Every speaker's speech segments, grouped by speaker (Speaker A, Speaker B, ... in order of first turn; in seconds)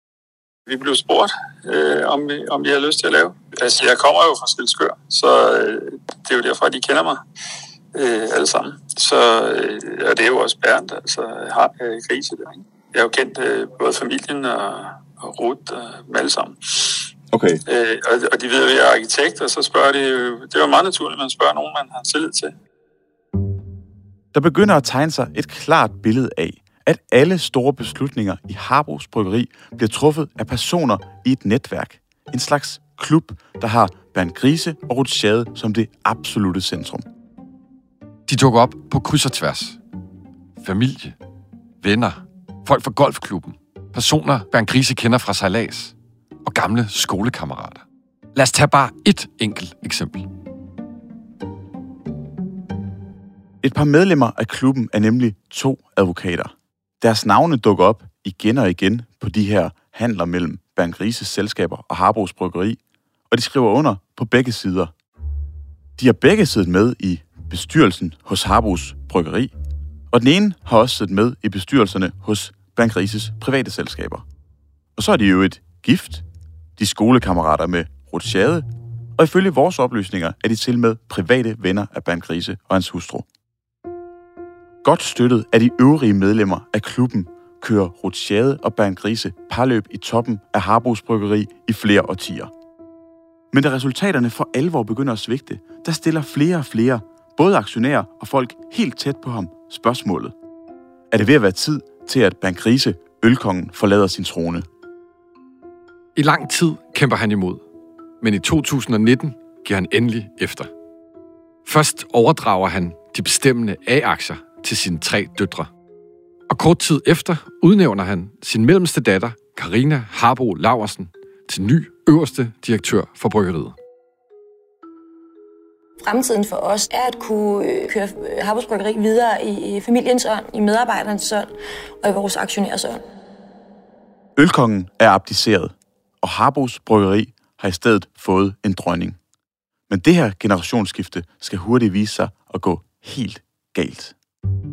Speaker A: 0.7-7.2, 7.9-17.1, 17.7-22.5
Speaker B: 17.3-17.6, 24.3-37.0, 53.6-64.9, 66.0-69.5, 70.1-74.2, 75.0-76.2, 76.8-83.2, 84.8-92.5, 93.5-100.3, 101.1-104.7, 134.3-139.2, 139.9-144.1
Speaker C: 38.3-39.8, 40.6-41.2, 41.8-45.9, 46.4-47.8, 48.3-50.3, 106.2-107.6, 108.2-110.7, 111.7-115.7, 116.5-123.7
Speaker D: 126.0-131.5, 132.0-133.0